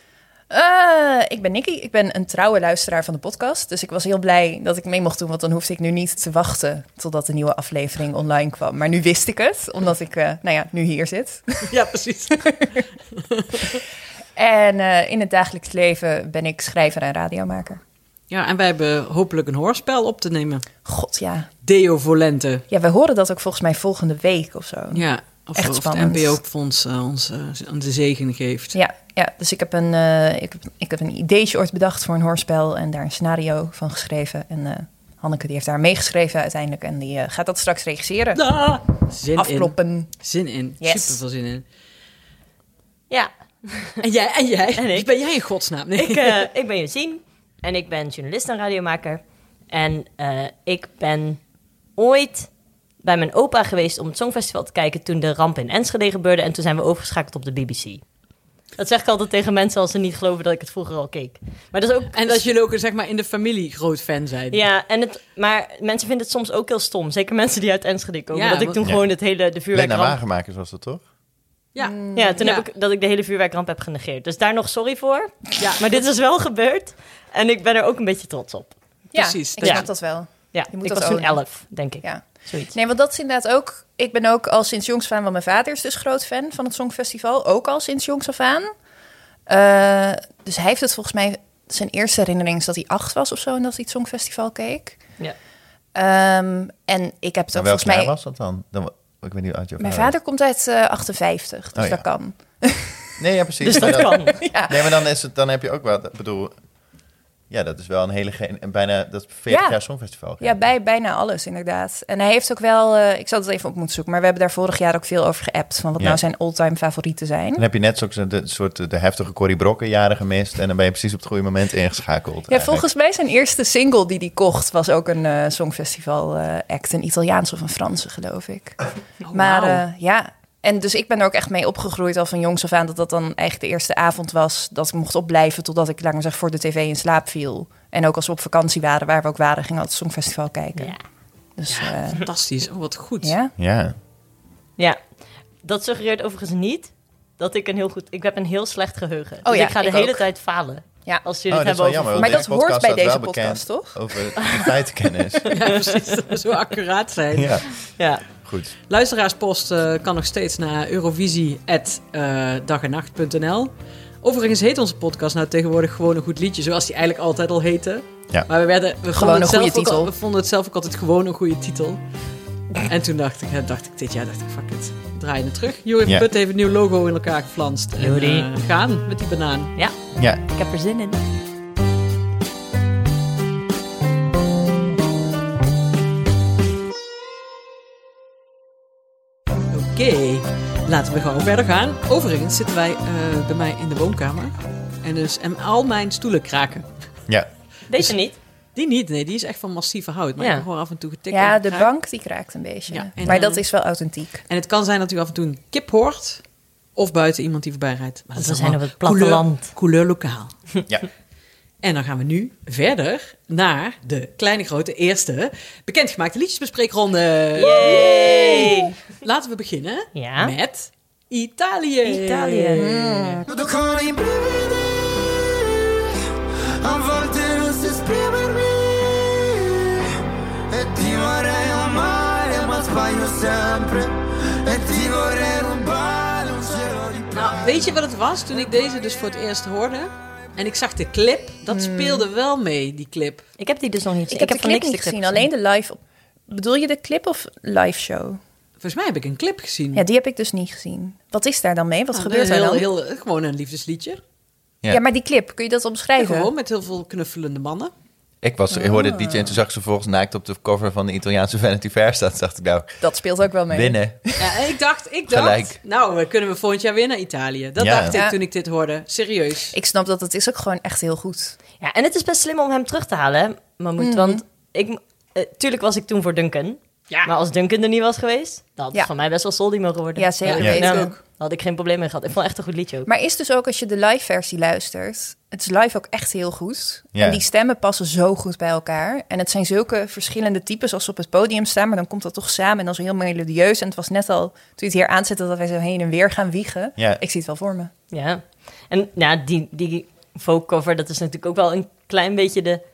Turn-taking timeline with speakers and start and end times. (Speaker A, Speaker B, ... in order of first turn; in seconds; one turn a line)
Speaker A: 0.5-11.7
Speaker B: 11.7-12.5
Speaker A: 12.4-12.7
Speaker B: 13.2-13.8
Speaker A: 14.3-17.8
Speaker B: 18.3-20.6
Speaker A: 20.9-21.5
Speaker B: 21.6-22.6
Speaker A: 22.7-25.0
Speaker B: 24.9-28.7
Speaker A: 25.6-26.4
Speaker A: 28.7-38.4
Speaker B: 38.3-41.6
Speaker A: 39.4-40.1
Speaker A: 40.8-41.2
Speaker C: 43.1-44.0
Speaker B: 44.0-46.5
Speaker C: 44.8-45.1
Speaker C: 46.0-51.4
Speaker C: 52.0-52.5
Speaker C: 53.0-58.0
Speaker C: 58.8-62.5
Speaker B: 62.1-64.6
Speaker C: 64.5-70.2
Speaker B: 68.3-68.8
Speaker D: 69.7-71.0
Speaker B: 71.7-72.6
Speaker A: 71.8-72.4
Speaker C: 72.1-78.7
Speaker B: 75.6-76.0
Speaker A: 79.1-81.4
Speaker B: 79.1-79.9
Speaker C: 79.6-79.9
Speaker C: 80.5-82.7
Speaker A: 82.0-88.7
Speaker A: 89.5-95.0
Speaker A: 95.9-98.1
Speaker D: 97.5-100.1
Speaker A: 99.8-103.0
Speaker D: 101.7-102.0
Speaker D: 103.2-106.5
Speaker C: 103.6-104.4
Speaker A: 104.5-104.8
Speaker D: 107.5-110.6
Speaker A: 109.5-109.8
Speaker A: 110.4-117.6
Speaker D: 117.6-122.8
Speaker A: 122.5-128.8
Speaker B: 129.2-129.8
Speaker A: 129.3-140.9
Speaker C: 140.8-141.0
Speaker A: 141.6-142.2
Speaker C: 141.7-142.0
Speaker B: 142.2-143.3
Speaker A: 143.2-143.5
Speaker D: 143.6-143.9
Speaker C: 145.6-152.4
Speaker A: 149.4-150.2
Speaker D: 151.5-155.5
Speaker A: 152.2-154.0
Speaker B: 155.5-157.7
Speaker D: 157.3-157.7
Speaker C: 158.0-158.2
Speaker D: 158.4-158.7
Speaker B: 158.9-172.0
Speaker A: 169.1-170.1
Speaker B: 172.8-179.7
Speaker C: 178.0-178.5
Speaker C: 179.8-181.2
Speaker D: 180.2-180.4
Speaker B: 189.7-196.9
Speaker C: 197.9-198.3
Speaker B: 198.7-201.9
Speaker C: 200.4-200.6
Speaker A: 201.3-204.4
Speaker B: 202.9-203.6
Speaker B: 204.5-206.4
Speaker B: 206.9-210.5
Speaker C: 208.3-209.7
Speaker B: 211.8-223.4
Speaker C: 217.6-218.9
Speaker A: 217.6-218.9
Speaker C: 220.1-220.5
Speaker C: 222.0-222.9
Speaker A: 222.8-223.4
Speaker E: 223.4-225.3
Speaker E: 226.8-229.7
Speaker E: 230.7-237.7
Speaker B: 237.3-243.4
Speaker A: 241.7-242.2
Speaker C: 243.6-245.5
Speaker A: 244.3-248.4
Speaker B: 248.8-250.0
Speaker A: 249.9-252.8
Speaker B: 252.1-254.2
Speaker A: 254.9-256.5
Speaker B: 256.2-257.9
Speaker D: 258.4-263.0
Speaker A: 258.7-259.5
Speaker A: 263.0-264.0
Speaker D: 263.7-264.4
Speaker B: 264.4-269.7
Speaker D: 265.3-265.8
Speaker D: 267.8-268.2
Speaker A: 269.7-271.6
Speaker C: 271.8-283.1
Speaker A: 274.0-274.4
Speaker A: 280.1-281.1
Speaker B: 280.4-281.2
Speaker A: 283.1-297.9
Speaker D: 287.1-287.4
Speaker C: 298.1-302.8